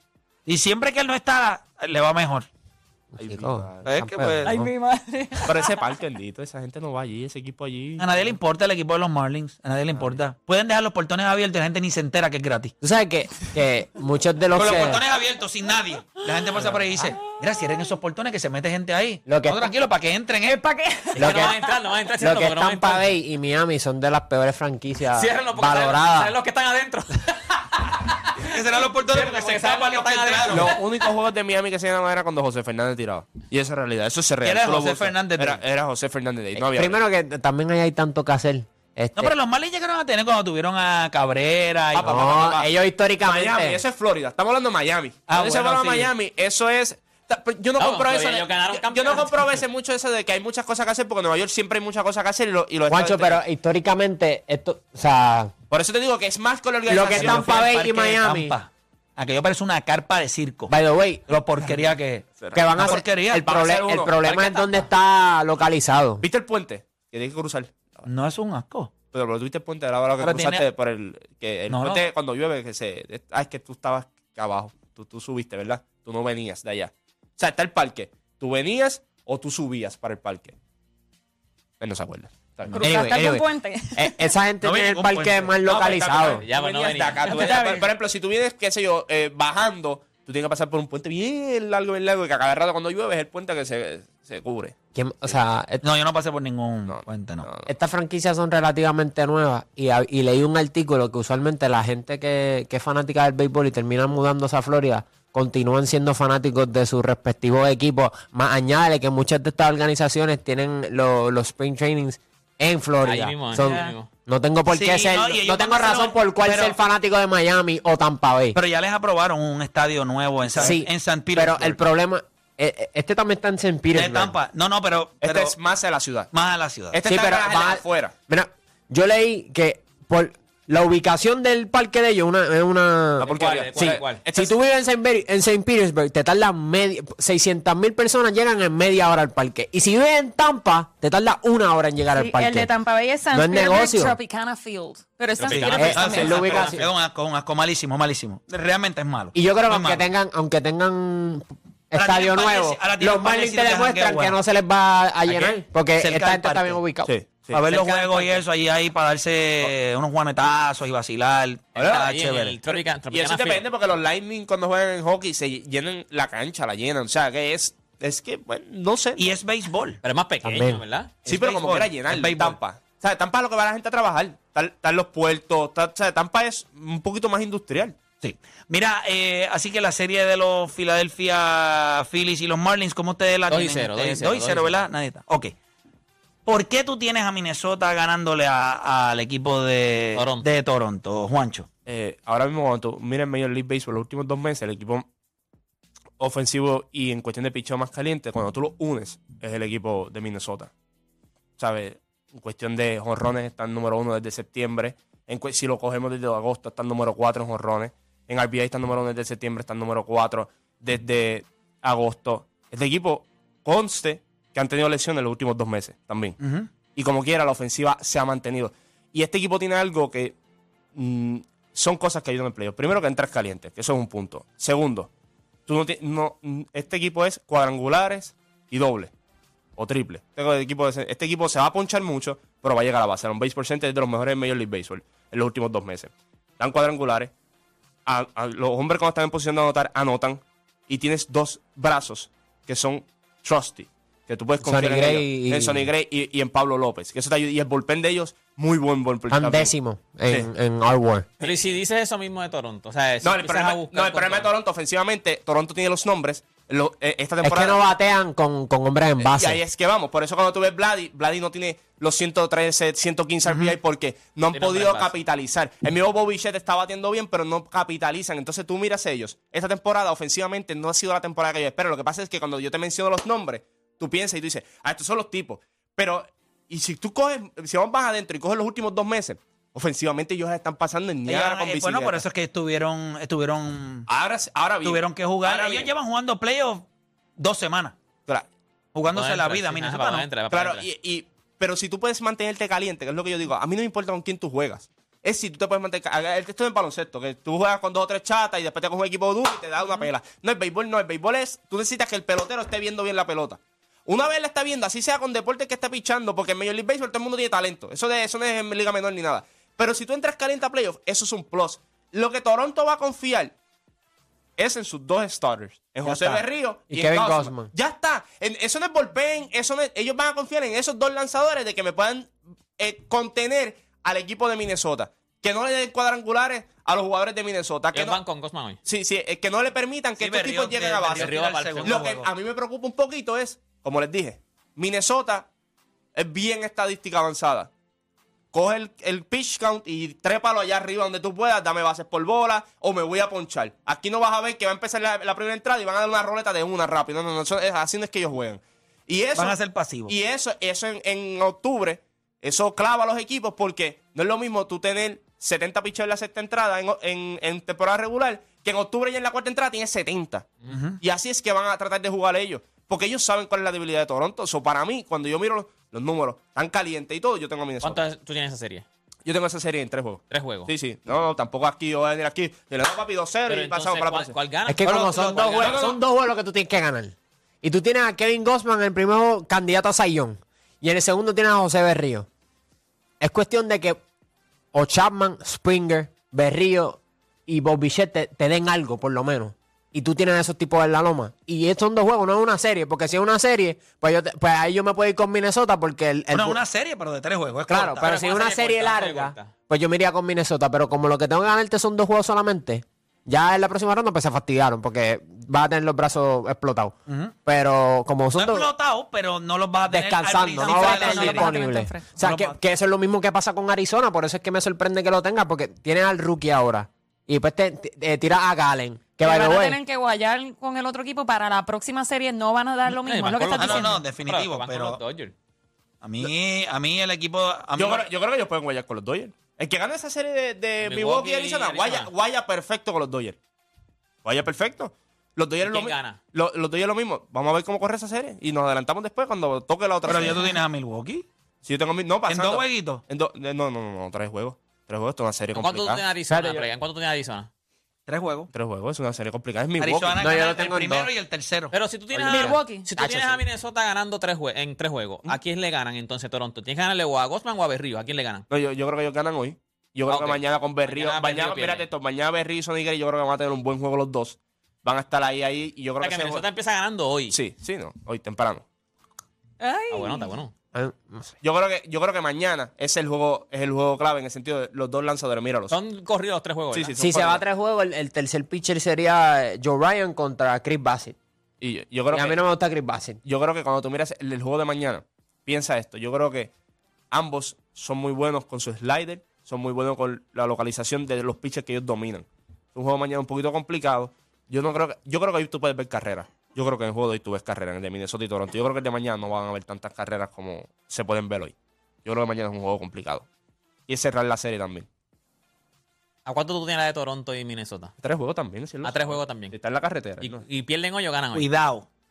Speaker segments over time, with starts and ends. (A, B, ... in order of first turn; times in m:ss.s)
0:00.4-0:02.5 A
0:03.1-0:04.7 B
0:03.2-0:04.0 C
0:03.8-0:04.6 A
0:04.4-0:05.8 D
0:05.4-0:08.3 C
0:08.0-0:12.7 A
0:12.8-0:15.0 B
0:14.5-0:20.6 A
0:19.2-0:19.6 B
0:20.4-0:21.5 D
0:21.2-0:21.6 B
0:21.2-0:23.1 E
0:22.2-0:26.3 B
0:25.1-0:30.8 E
0:28.3-0:30.8 A
0:30.5-0:37.0 C
0:34.4-0:35.6 A
0:36.6-0:39.3 B
0:39.2-0:42.1 A
0:41.9-0:42.7 C
0:42.0-0:43.8 B
0:43.2-0:53.4 C
0:45.3-0:46.1 A
0:47.8-0:49.6 E
0:52.9-0:55.5 B
0:55.7-0:57.7 C
0:56.8-0:58.5 B
0:57.0-1:00.7 A
1:00.7-1:01.3 B
1:01.3-1:03.6 A
1:02.4-1:04.1 C
1:02.5-1:06.2 B
1:04.2-1:04.9 E
1:06.2-1:08.0 C
1:08.0-1:08.9 A
1:09.1-1:20.6 C
1:10.2-1:10.6 A
1:11.7-1:12.0 A
1:21.8-1:23.0 C
1:22.7-1:24.3 D
1:22.8-1:26.4 B
1:24.6-1:25.5 A
1:25.6-1:34.8 C
1:26.4-1:27.8 E
1:34.9-1:35.8 B
1:35.8-1:37.5 A
1:36.9-1:37.7 C
1:37.6-1:58.6 B
1:53.0-1:54.1 E
1:53.6-1:53.9 D
1:54.7-1:56.8 A
1:58.5-2:01.8 A
2:00.6-2:04.3 B
2:03.9-2:05.6 A
2:05.2-2:06.3 C
2:06.3-2:07.0 A
2:06.9-2:08.1 C
2:07.0-2:22.7 B
2:13.2-2:14.2 E
2:13.2-2:14.5 C
2:22.1-2:26.7 D
2:23.3-2:24.2 B
2:25.4-2:26.8 E
2:25.4-2:30.0 A
2:25.7-2:26.9 B
2:29.3-2:37.1 B
2:31.9-2:34.4 A
2:35.3-2:36.8 A
2:37.0-2:37.6 C
2:37.5-2:42.6 A
2:37.6-2:38.4 E
2:41.8-2:43.6 E
2:41.8-2:42.0 C
2:42.7-2:49.4 C
2:49.2-2:50.0 A
2:50.0-2:51.1 E
2:50.4-2:50.8 B
2:51.2-2:52.6 A
2:51.2-2:58.0 C
2:58.2-3:05.5 A
3:03.5-3:04.8 E
3:06.4-3:11.7 A
3:10.2-3:10.4 E
3:11.8-3:15.1 C
3:16.2-3:20.7 C
3:21.6-3:36.4 C
3:36.4-3:36.7 A
3:36.9-3:40.4 C
3:40.9-3:45.1 C
3:45.7-3:49.1 C
3:49.8-3:57.3 C
3:58.0-4:09.7 C
4:04.6-4:05.9 B
4:09.3-4:11.3 B
4:11.4-4:14.5 E
4:13.2-4:17.8 C
4:17.4-4:19.6 B
4:19.2-4:42.2 C
4:24.5-4:25.1 E
4:41.2-4:44.1 A
4:44.1-4:45.9 C
4:44.8-4:46.9 A
4:47.4-4:47.9 A
4:48.9-4:50.3 A
4:49.1-4:50.8 E
4:50.5-5:13.5 C
5:14.6-5:28.2 C
5:16.0-5:17.7 B
5:27.9-5:28.8 E
5:28.8-5:35.5 C
5:30.2-5:32.3 A
5:31.1-5:32.0 E
5:36.1-5:37.7 C
5:38.5-6:08.0 C
5:49.4-5:50.1 A
6:00.7-6:01.0 A
6:07.8-6:08.8 E
6:09.2-6:14.3 C
6:10.3-6:10.7 E
6:13.5-6:15.7 E
6:14.7-6:22.3 B
6:14.8-6:15.8 A
6:15.6-6:16.0 C
6:23.2-6:24.0 B
6:24.7-6:36.6 B
6:36.3-6:38.1 A
6:37.7-6:48.7 B
6:38.0-6:39.5 E
6:47.1-6:47.3 A
6:48.3-6:51.5 A
6:49.9-6:59.8 B
6:50.6-6:52.1 D
6:52.2-6:52.6 A
6:59.2-7:04.0 D
7:02.9-7:05.3 E
7:03.6-7:05.0 A
7:06.0-7:08.1 A
7:07.8-7:13.4 C
7:10.8-7:12.1 E
7:14.2-7:20.5 C
7:15.6-7:16.2 E
7:20.0-7:21.2 A
7:21.6-7:26.0 C
7:22.3-7:23.0 A
7:25.5-7:27.5 E
7:26.3-7:26.7 B
7:28.1-7:28.5 A
7:28.5-7:30.3 C
7:29.8-7:31.7 A
7:30.2-7:31.1 B
7:31.7-7:38.4 E
7:32.1-7:33.4 B
7:32.3-7:32.9 D
7:38.5-7:46.4 C
7:40.1-7:41.9 E
7:46.0-7:47.4 E
7:47.3-7:48.6 C
7:49.6-7:50.3 D
7:49.9-7:50.5 E
7:50.7-7:51.3 B
7:51.4-7:55.8 C
7:55.7-7:57.0 E
7:56.7-7:57.4 C
7:57.0-8:01.2 B
8:01.6-8:02.4 C
8:02.1-8:03.2 B
8:03.2-8:06.5 C
8:07.1-8:23.3 C
8:23.9-8:24.9 C
8:26.2-8:27.9 E
8:28.0-8:30.4 C
8:28.8-8:29.6 E
8:30.2-8:31.5 E
8:31.3-8:31.8 A